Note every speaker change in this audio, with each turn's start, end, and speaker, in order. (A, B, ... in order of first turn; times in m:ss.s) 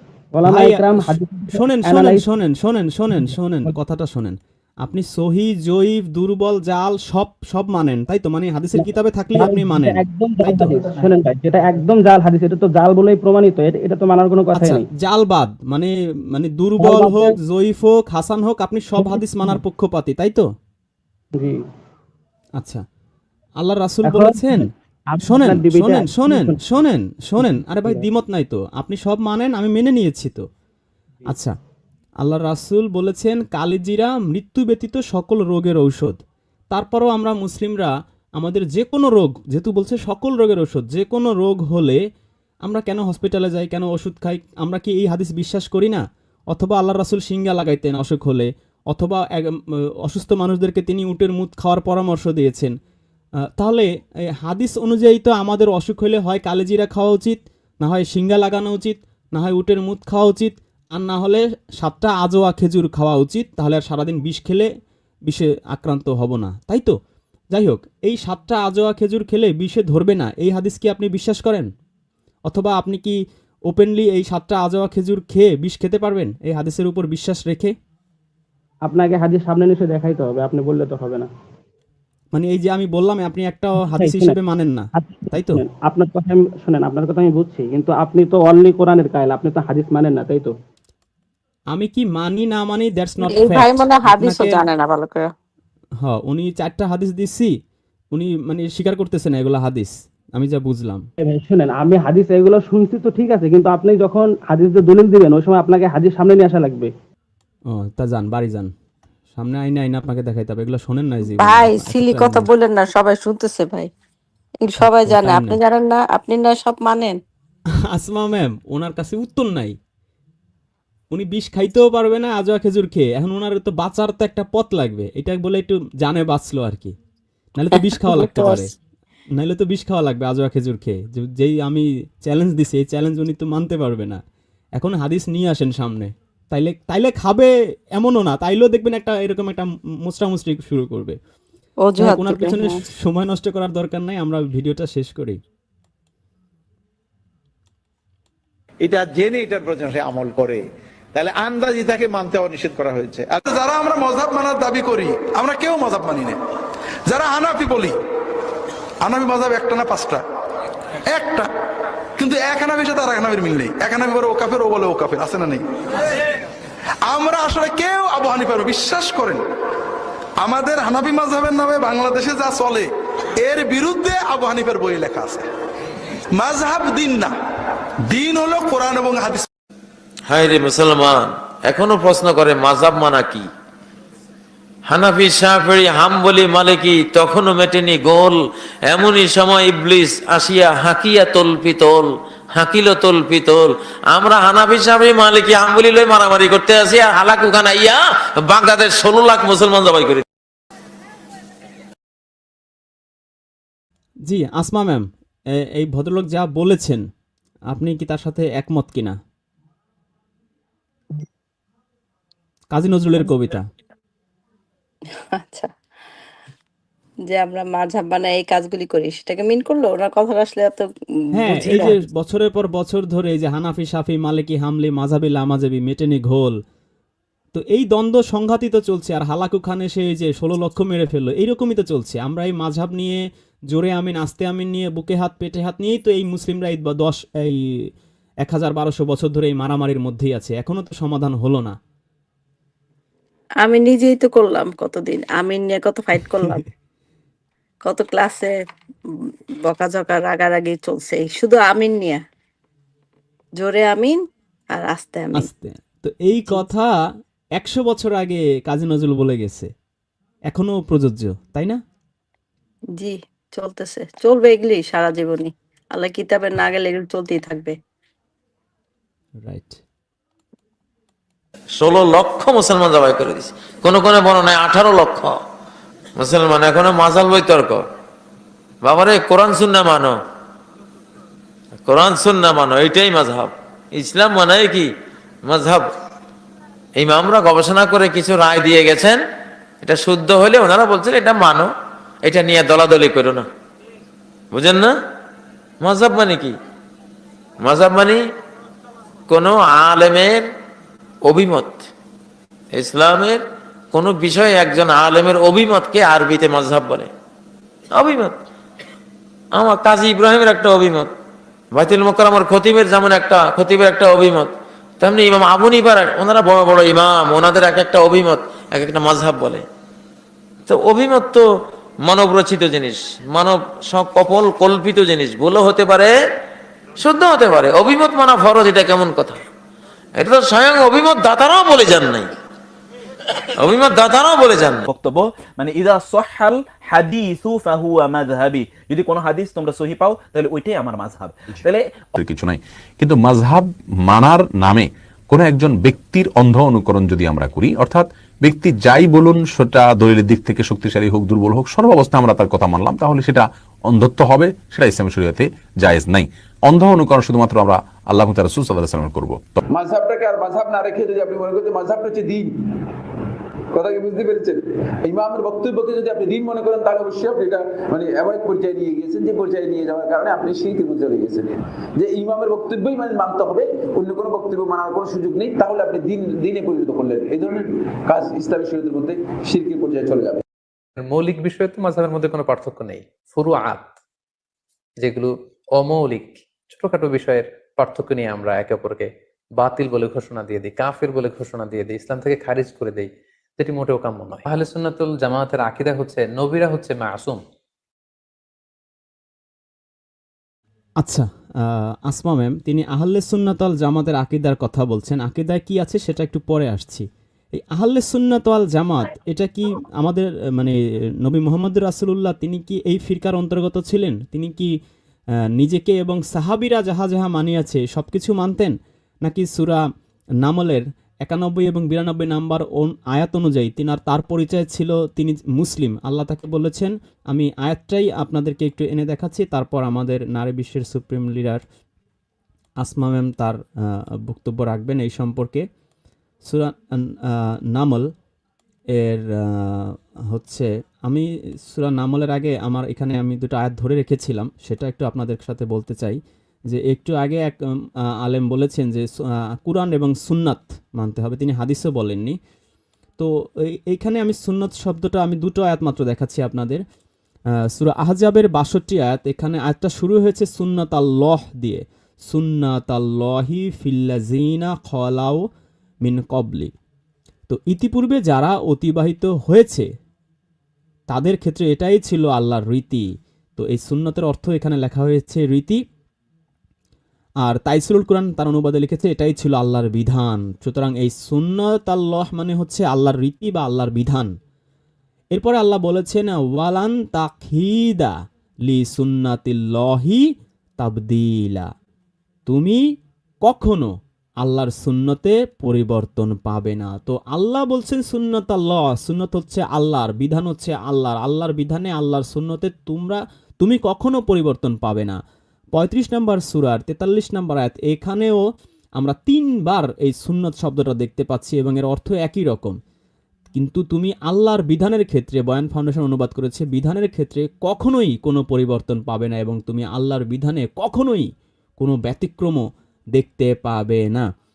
0:00.4-0:02.2 A
0:00.5-0:10.8 B
0:03.1-0:03.7 A
0:08.8-0:14.8 A
0:14.5-0:20.5 B
0:16.8-0:17.3 A
0:19.0-0:19.6 A
0:22.6-0:22.8 B
0:23.6-0:24.7 B
0:24.0-0:26.6 A
0:25.2-0:30.4 B
0:27.4-0:28.0 A
0:31.3-0:31.5 B
0:32.2-0:36.2 B
0:36.7-0:42.0 B
0:42.6-0:52.7 B
0:53.6-0:53.9 B
0:54.4-1:04.7 B
1:05.3-1:07.0 B
1:07.5-1:11.7 B
1:12.5-1:17.7 B
1:18.9-1:21.3 A
1:22.3-1:25.6 B
1:23.9-1:24.4 A
1:25.0-1:30.5 A
1:31.7-1:34.6 B
1:33.3-1:35.3 C
1:36.0-1:37.5 B
1:38.1-1:41.0 B
1:41.2-1:46.9 A
1:47.7-1:48.7 B
1:49.3-1:52.5 B
1:51.4-1:53.9 C
1:54.6-1:57.2 C
1:54.8-1:55.6 B
1:57.9-1:59.8 B
2:01.1-2:07.0 B
2:07.6-2:08.7 B
2:08.0-2:08.6 C
2:09.4-2:14.2 B
2:14.8-2:21.2 B
2:21.8-2:22.8 C
2:22.0-2:25.4 B
2:28.8-2:30.6 D
2:31.1-2:33.4 D
2:33.4-2:36.4 E
2:37.1-2:37.9 E
2:39.0-2:40.2 E
2:41.1-2:41.5 E
2:42.2-2:45.6 E
2:47.0-2:49.4 E
2:50.4-2:52.9 E
2:53.4-2:55.4 E
2:56.3-2:57.3 E
2:58.1-2:59.5 E
3:00.3-3:03.5 F
3:04.9-3:20.2 F
3:24.2-3:27.0 B
3:27.7-3:29.2 B
3:32.7-3:33.7 B
3:35.4-3:35.7 C
3:37.3-3:40.9 C
3:41.4-3:46.6 B
3:41.4-3:41.9 C
3:47.5-3:57.9 B
3:58.4-4:01.8 B
4:03.6-4:06.6 C
4:07.8-4:08.5 C
4:09.6-4:12.2 C
4:13.6-4:14.2 C
4:14.7-4:15.5 C
4:15.4-4:16.9 B
4:17.6-4:19.7 B
4:20.5-4:21.8 B
4:23.0-4:27.7 C
4:29.4-4:29.8 B
4:31.8-4:35.4 F
4:36.2-4:37.8 F
4:38.8-4:40.2 F
4:41.8-4:44.9 F
4:45.4-4:45.9 F
4:47.0-4:49.2 F
4:49.8-4:51.7 F
4:52.2-4:53.4 F
4:54.5-4:54.9 F
4:55.8-4:56.5 F
4:57.6-4:58.2 F
4:59.3-5:00.4 F
5:01.2-5:01.9 F
5:02.7-5:03.4 F
5:03.9-5:07.1 F
5:07.9-5:08.3 F
5:09.5-5:11.1 F
5:11.7-5:19.6 F
5:20.7-5:21.4 F
5:22.0-5:26.1 F
5:27.0-5:29.4 F
5:30.2-5:32.3 F
5:33.6-5:34.8 F
5:34.9-5:41.8 G
5:42.2-5:59.6 H
5:59.7-6:02.5 I
6:03.7-6:20.4 I
6:21.0-6:23.9 J
6:25.0-6:37.4 J
6:41.0-6:54.7 B
6:55.6-6:59.8 B
7:00.4-7:11.6 B
7:12.8-7:13.6 B
7:14.3-7:15.6 B
7:16.4-7:18.1 B
7:18.9-7:32.4 B
7:33.2-7:36.8 B
7:37.7-7:45.4 B
7:46.0-7:46.7 B
7:47.5-7:49.9 B
7:51.1-7:53.0 B
7:53.6-7:55.8 B
7:57.4-8:04.3 B
8:05.3-8:08.1 B
8:08.6-8:10.3 B
8:10.8-8:11.7 B
8:12.5-8:12.8 B
8:13.4-8:25.2 B
8:25.7-8:28.4 B
8:29.0-8:32.8 B
8:33.5-8:44.3 B